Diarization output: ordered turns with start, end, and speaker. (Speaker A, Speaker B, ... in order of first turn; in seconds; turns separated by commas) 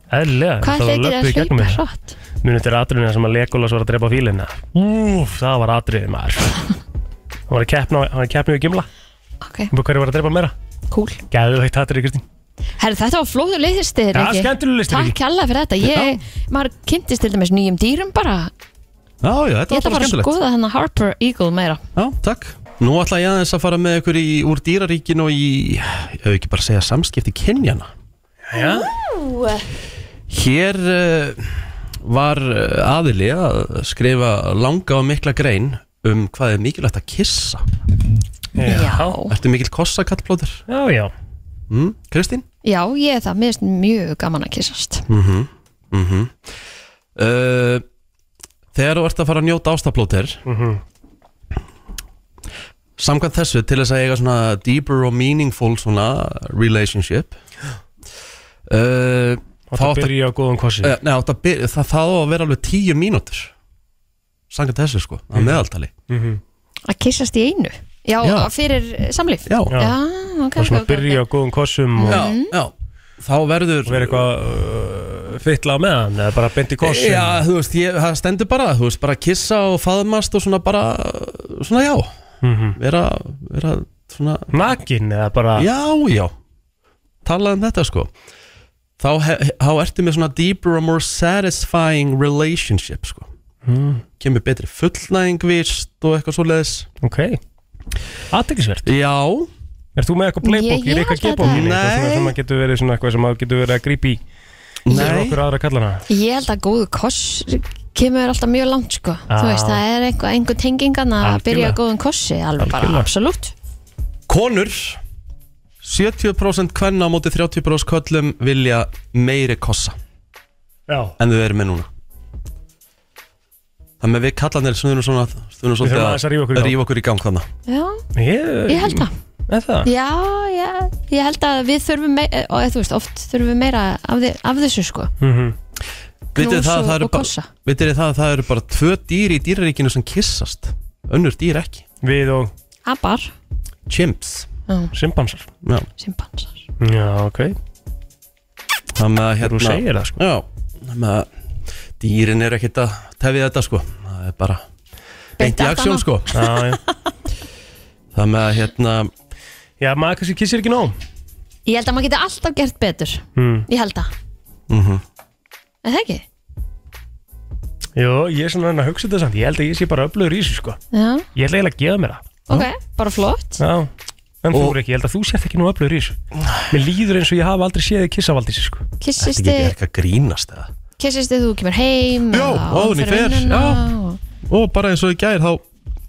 Speaker A: 0.1-1.8, Speaker B: 0.6-2.2, Speaker A: 2.4-6.6, Speaker A: 7.5-8.9, Speaker B: 9.4-9.7, Speaker A: 9.7-10.5, Speaker B: 10.9-11.2, Speaker A: 11.3-12.2, Speaker B: 12.8-18.5, Speaker A: 14.1-15.2, Speaker C: 15.8-16.2, Speaker C: 19.2-20.4, Speaker B: 19.7-21.8, Speaker C: 22.0-27.9, Speaker A: 28.5-28.9, Speaker B: 28.6-29.6, Speaker C: 30.3-37.6, Speaker A: 38.6-39.1, Speaker B: 38.6-39.4, Speaker C: 39.3-40.6, Speaker A: 40.7-41.1, Speaker C: 41.7-42.5, Speaker B: 42.6-45.0, Speaker C: 45.1-46.4, Speaker C: 47.2-47.8, Speaker C: 48.7-50.4, Speaker A: 50.5-50.8, Speaker C: 53.0-57.4, Speaker C: 58.7-60.1, Speaker A: 59.7-61.0, Speaker C: 60.8-63.5, Speaker C: 64.5-65.9, Speaker A: 66.1-66.4, Speaker B: 66.9-71.2, Speaker C: 68.2-68.5, Speaker C: 69.5-69.8, Speaker A: 69.7-70.0, Speaker A: 70.6-72.3, Speaker B: 72.0-72.5, Speaker C: 72.0-74.3, Speaker A: 73.9-77.4, Speaker C: 76.8-82.1, Speaker A: 82.4-82.8, Speaker C: 82.8-84.5, Speaker A: 84.5-85.7, Speaker C: 85.6-86.3, Speaker C: 87.2-88.1, Speaker C: 89.0-93.3, Speaker A: 93.7-94.0, Speaker C: 94.2-96.9, Speaker A: 97.0-97.4, Speaker A: 98.3-98.9, Speaker C: 98.9-99.5, Speaker A: 100.0-104.2, Speaker B: 100.4-101.6, Speaker C: 101.4-102.4, Speaker C: 104.8-105.4, Speaker A: 104.9-106.0, Speaker B: 106.1-113.5, Speaker A: 109.3-109.8, Speaker A: 111.2-111.8, Speaker A: 112.6-113.1, Speaker C: 114.3-115.0, Speaker C: 115.8-120.0, Speaker A: 120.9-121.2, Speaker C: 121.2-121.9, Speaker C: 124.0-127.5, Speaker A: 125.8-126.8, Speaker B: 127.7-128.0, Speaker A: 128.2-129.9, Speaker B: 128.7-129.1, Speaker B: 129.8-135.1, Speaker A: 135.2-135.6, Speaker C: 136.3-141.8, Speaker B: 136.4-137.5, Speaker A: 142.0-142.5, Speaker B: 142.9-143.3, Speaker C: 143.9-144.5, Speaker A: 144.9-145.5, Speaker C: 145.6-145.9, Speaker B: 146.0-146.6, Speaker A: 146.8-147.6, Speaker C: 148.9-151.3, Speaker A: 149.4-150.2, Speaker C: 152.0-154.7, Speaker C: 155.4-156.3, Speaker B: 155.4-156.5, Speaker A: 156.3-156.8, Speaker C: 158.1-159.1, Speaker A: 159.8-160.9, Speaker B: 161.7-164.1, Speaker A: 163.4-163.7, Speaker C: 164.7-165.0, Speaker B: 165.8-166.2, Speaker A: 168.0-170.8, Speaker B: 170.9-171.3, Speaker A: 171.4-172.2, Speaker B: 172.5-173.6, Speaker A: 173.6-173.9, Speaker A: 174.4-176.2, Speaker C: 174.5-174.8, Speaker C: 176.4-176.7, Speaker A: 176.7-178.8, Speaker B: 179.0-179.7, Speaker C: 179.2-180.7, Speaker B: 181.0-184.2, Speaker C: 182.3-183.9, Speaker C: 184.5-185.6